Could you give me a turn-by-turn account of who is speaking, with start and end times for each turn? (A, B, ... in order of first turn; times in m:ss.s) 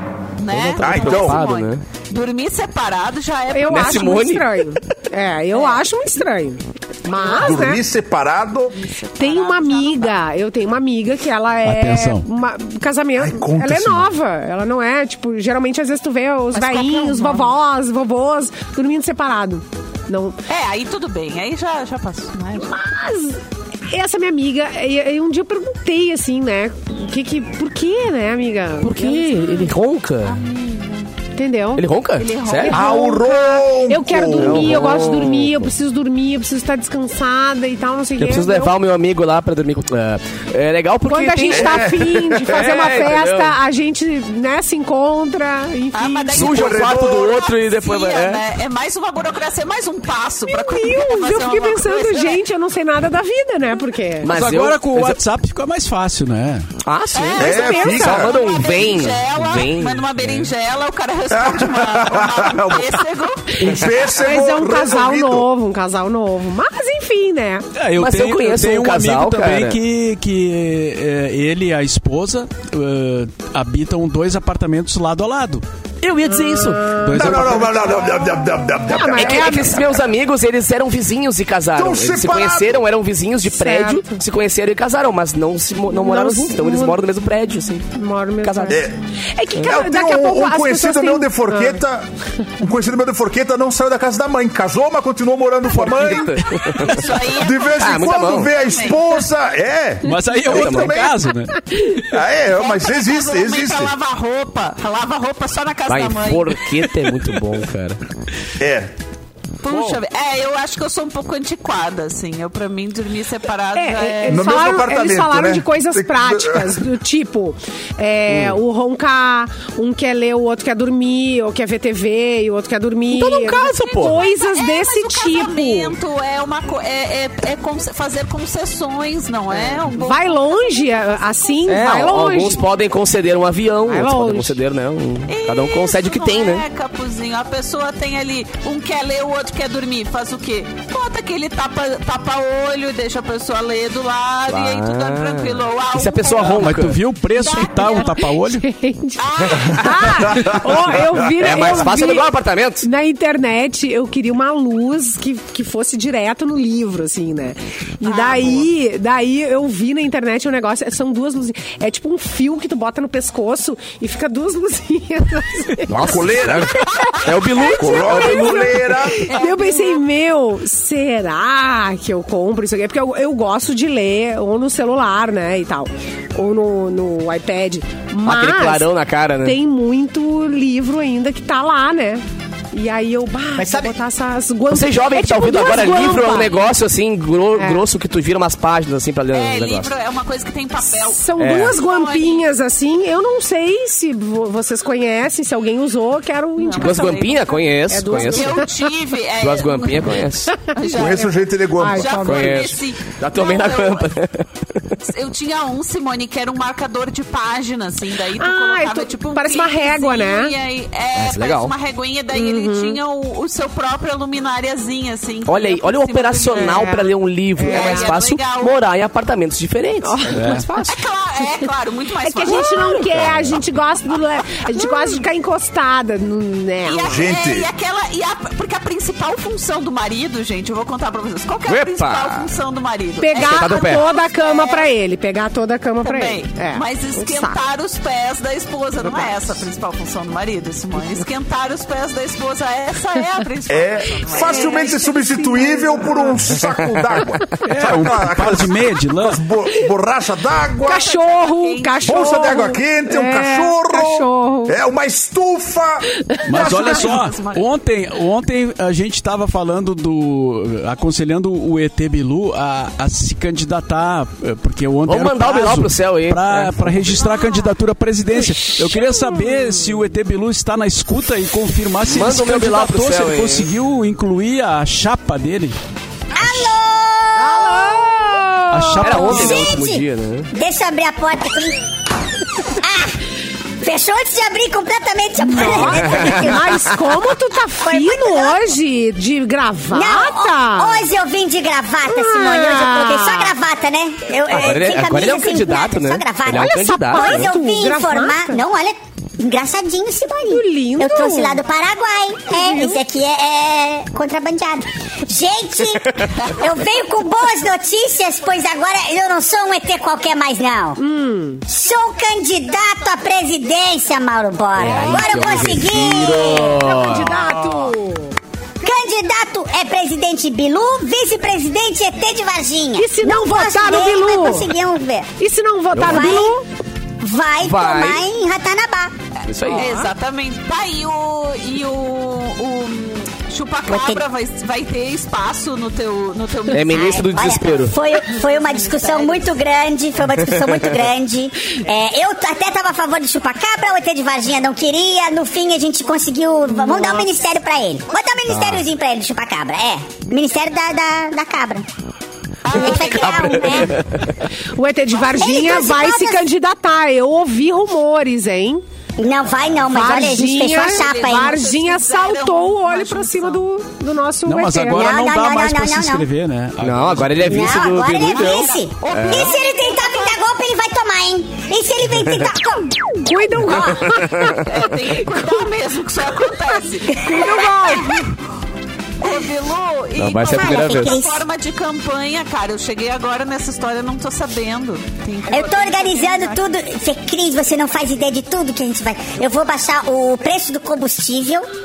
0:00.4-0:04.1 A
0:00.5-0:01.8 B
0:00.8-0:01.4 C
0:03.5-0:07.8 D
0:03.7-0:04.6 B
0:07.2-0:07.6 A
0:07.3-0:08.8 C
0:08.7-0:10.2 A
0:09.2-0:20.4 D
0:11.6-0:12.3 E
0:13.2-0:14.1 C
0:16.5-0:17.6 A
0:20.5-0:22.7 A
0:22.6-0:29.7 D
0:28.8-0:30.4 B
0:30.2-0:31.1 A
0:31.4-0:31.8 D
0:31.8-0:32.8 B
0:32.2-0:33.0 A
0:32.7-0:38.8 D
0:32.7-0:34.8 C
0:34.3-0:35.7 B
0:38.2-0:43.6 B
0:41.1-0:46.4 D
0:41.5-0:42.2 C
0:45.9-0:52.4 A
0:46.3-0:48.4 B
0:46.4-0:47.4 C
0:50.4-0:54.3 D
0:54.2-0:55.2 B
0:54.3-0:56.7 E
0:56.8-1:00.5 B
0:57.1-1:03.6 A
0:57.4-0:58.3 C
0:57.4-0:58.2 D
1:01.3-1:03.0 C
1:03.6-1:05.5 C
1:03.6-1:07.7 D
1:07.8-1:15.6 E
1:07.9-1:09.8 B
1:16.0-1:17.5 B
1:16.4-1:19.8 D
1:16.9-1:17.8 E
1:17.1-1:19.8 C
1:19.1-1:27.9 B
1:21.8-1:22.8 C
1:23.5-1:24.2 D
1:25.9-1:27.0 D
1:27.9-1:31.8 D
1:28.4-1:28.8 B
1:28.7-1:29.0 C
1:29.6-1:41.2 C
1:35.7-1:37.0 B
1:36.8-1:39.1 A
1:37.7-1:38.5 B
1:40.0-1:42.1 E
1:40.5-1:41.0 B
1:42.1-1:43.9 C
1:42.6-1:46.7 A
1:45.9-1:48.0 B
1:48.6-1:48.9 C
1:49.6-1:54.6 A
1:49.7-1:50.0 E
1:53.7-2:05.9 D
1:54.3-1:56.8 C
1:58.3-1:58.6 B
2:03.1-2:04.2 B
2:03.9-2:11.2 A
2:09.5-2:09.9 B
2:09.9-2:12.6 D
2:11.6-2:16.6 B
2:13.9-2:14.6 D
2:15.3-2:26.8 A
2:24.5-2:27.0 B
2:26.5-2:28.7 E
2:27.4-2:28.1 A
2:27.4-2:32.3 D
2:29.2-2:30.3 A
2:30.3-2:30.6 C
2:31.4-2:32.9 B
2:32.8-2:58.9 D
2:38.1-2:38.6 A
2:45.9-2:48.6 B
2:46.0-2:46.8 C
2:47.8-2:49.3 C
2:49.2-2:50.0 A
2:58.2-2:59.6 B
2:59.4-3:06.6 D
3:03.6-3:03.9 C
3:04.7-3:09.9 B
3:07.6-3:07.8 D
3:09.3-3:12.5 A
3:10.8-3:17.2 D
3:11.4-3:11.8 B
3:16.6-3:24.1 A
3:16.7-3:18.6 B
3:17.9-3:18.9 D
3:19.4-3:20.6 B
3:20.5-3:22.7 D
3:20.9-3:22.4 C
3:22.2-3:24.9 B
3:25.0-3:36.9 A
3:28.4-3:30.5 D
3:31.1-3:31.7 B
3:32.3-3:33.0 D
3:35.4-3:40.5 B
3:36.5-3:38.1 D
3:37.7-3:38.8 A
3:40.0-3:41.6 D
3:40.3-3:40.7 E
3:40.9-3:43.0 A
3:42.2-3:47.2 D
3:43.1-3:43.6 B
3:46.8-3:54.9 A
3:47.1-3:47.7 C
3:51.7-3:52.5 B
3:53.2-3:57.6 D
3:53.4-3:54.0 B
3:56.0-4:05.0 A
4:03.7-4:11.1 C
4:04.4-4:06.4 D
4:07.6-4:09.4 E
4:10.8-4:12.4 A
4:10.8-4:14.8 D
4:12.0-4:16.1 C
4:16.3-4:16.9 D
4:16.5-4:35.8 E
4:16.5-4:17.7 A
4:25.1-4:27.2 B
4:28.9-4:29.7 D
4:32.0-4:33.7 B
4:36.4-4:38.1 F
4:37.4-4:39.5 D
4:38.7-4:39.7 E
4:39.0-4:40.5 B
4:39.1-4:41.8 F
4:42.6-4:43.2 F
4:43.8-4:46.8 F
4:45.4-4:51.1 D
4:45.7-4:47.0 B
4:47.8-4:48.6 F
4:49.9-5:11.0 F
4:52.1-4:53.6 D
4:54.5-4:57.5 B
4:56.5-4:58.6 D
5:00.5-5:01.6 D
5:02.5-5:03.0 D
5:11.0-5:11.6 D
5:11.7-5:16.8 F
5:14.8-5:17.6 B
5:15.0-5:15.5 D
5:16.4-5:18.4 D
5:18.8-5:25.3 F
5:23.0-5:24.7 D
5:25.4-5:26.6 D
5:25.9-5:26.4 B
5:26.0-5:26.5 F
5:27.2-5:29.1 F
5:27.6-5:28.2 B
5:29.4-5:29.9 B
5:29.7-5:30.1 D
5:29.7-5:37.2 A
5:33.9-5:34.2 F
5:36.7-5:38.0 B
5:36.9-5:51.9 F
5:38.4-5:39.5 A
5:40.5-5:41.0 B
5:48.5-5:48.8 B
5:52.6-5:54.0 A
5:52.7-5:54.0 F
5:53.1-5:54.3 B
5:54.7-5:58.8 D
5:55.2-5:56.5 F
5:59.2-6:01.6 F
5:59.9-6:05.1 D
6:00.6-6:03.6 A
6:04.4-6:07.8 E
6:04.9-6:06.3 F
6:06.8-6:09.6 B
6:07.4-6:13.0 F
6:08.4-6:10.4 A
6:13.2-6:14.7 D
6:13.7-6:14.7 B
6:14.4-6:18.3 A
6:17.1-6:18.3 D
6:19.2-6:26.6 A
6:20.2-6:21.2 B
6:20.5-6:21.4 F
6:25.5-6:31.6 F